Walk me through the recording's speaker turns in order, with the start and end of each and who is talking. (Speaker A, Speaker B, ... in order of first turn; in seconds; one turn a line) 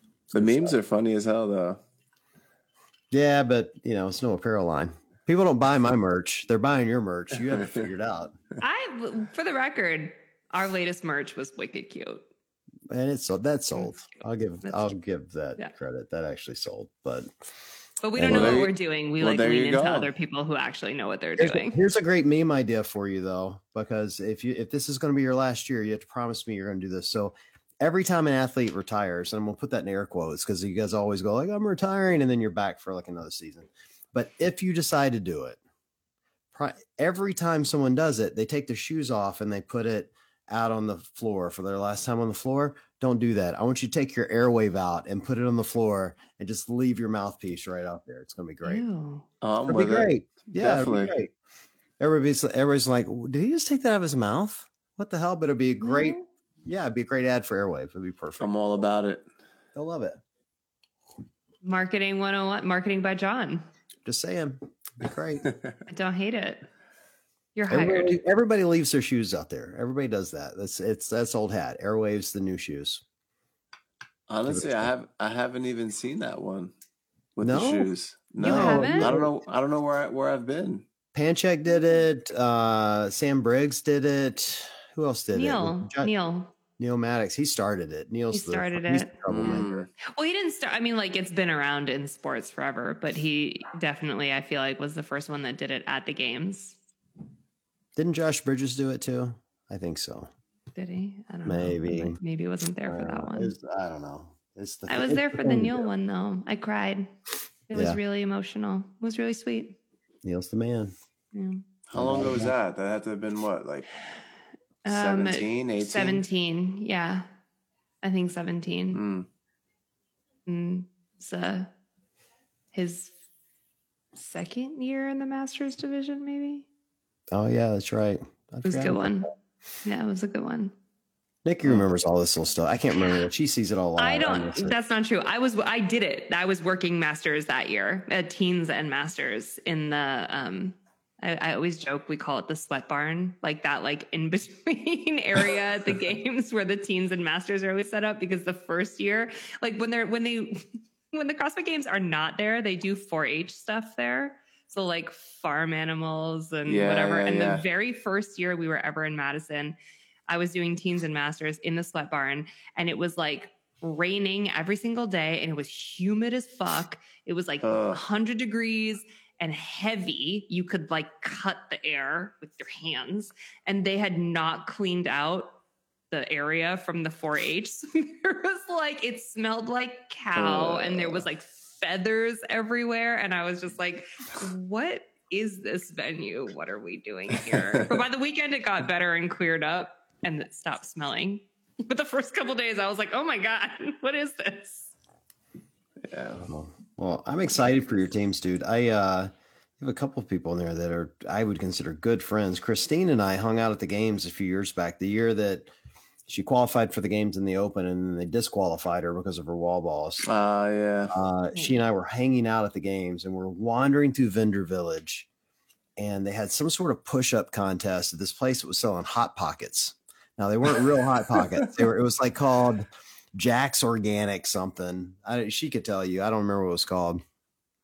Speaker A: 0.3-0.8
Speaker B: 0.3-1.8
Speaker A: 3.1-8.3
Speaker C: 8.6-12.3
Speaker A: 12.9-17.3
Speaker C: 13.8-14.9
Speaker C: 18.0-21.8
Speaker A: 18.2-18.6
Speaker B: 18.2-20.1
Speaker A: 21.4-35.6
Speaker A: 36.5-48.8
Speaker C: 48.6-49.3
Speaker B: 49.4-51.1
Speaker A: 49.7-51.3
Speaker A: 52.0-58.6
Speaker C: 55.8-56.2
Speaker B: 58.4-59.2
Speaker A: 59.8-60.2
Speaker C: 61.6-63.7
Speaker A: 64.0-65.5
Speaker C: 65.9-66.7
Speaker C: 67.5-68.2
Speaker A: 67.7-73.0
Speaker B: 74.3-76.7
Speaker A: 74.5-74.9
Speaker B: 77.4-80.9
Speaker A: 77.4-79.3
Speaker C: 78.4-79.2
Speaker A: 81.1-86.1
Speaker C: 85.3-86.5
Speaker A: 86.8-89.8
Speaker C: 88.3-96.8
Speaker B: 89.3-89.9
Speaker A: 98.0-100.3
Speaker C: 100.8-103.5
Speaker A: 101.5-102.2
Speaker A: 102.9-105.9
Speaker C: 104.9-107.1
Speaker C: 107.7-109.8
Speaker A: 110.2-110.9
Speaker C: 111.3-111.6
Speaker B: 111.9-113.9
Speaker A: 111.9-112.5
Speaker C: 114.8-117.3
Speaker B: 114.9-116.2
Speaker C: 118.0-119.0
Speaker B: 118.9-119.3
Speaker C: 120.5-121.7
Speaker C: 122.7-123.1
Speaker C: 124.2-126.7
Speaker A: 127.3-129.1
Speaker C: 128.7-129.3
Speaker C: 129.8-130.7
Speaker A: 131.4-134.8
Speaker C: 133.0-133.3
Speaker C: 134.0-159.8
Speaker B: 156.7-157.7
Speaker C: 160.3-175.6
Speaker B: 167.6-168.0
Speaker C: 176.1-194.9
Speaker B: 180.3-181.3
Speaker B: 187.4-188.1
Speaker B: 196.0-196.5
Speaker A: 196.4-205.7
Speaker A: 206.3-210.3
Speaker B: 210.2-211.2
Speaker A: 211.1-215.3
Speaker C: 211.5-211.8
Speaker A: 216.0-227.2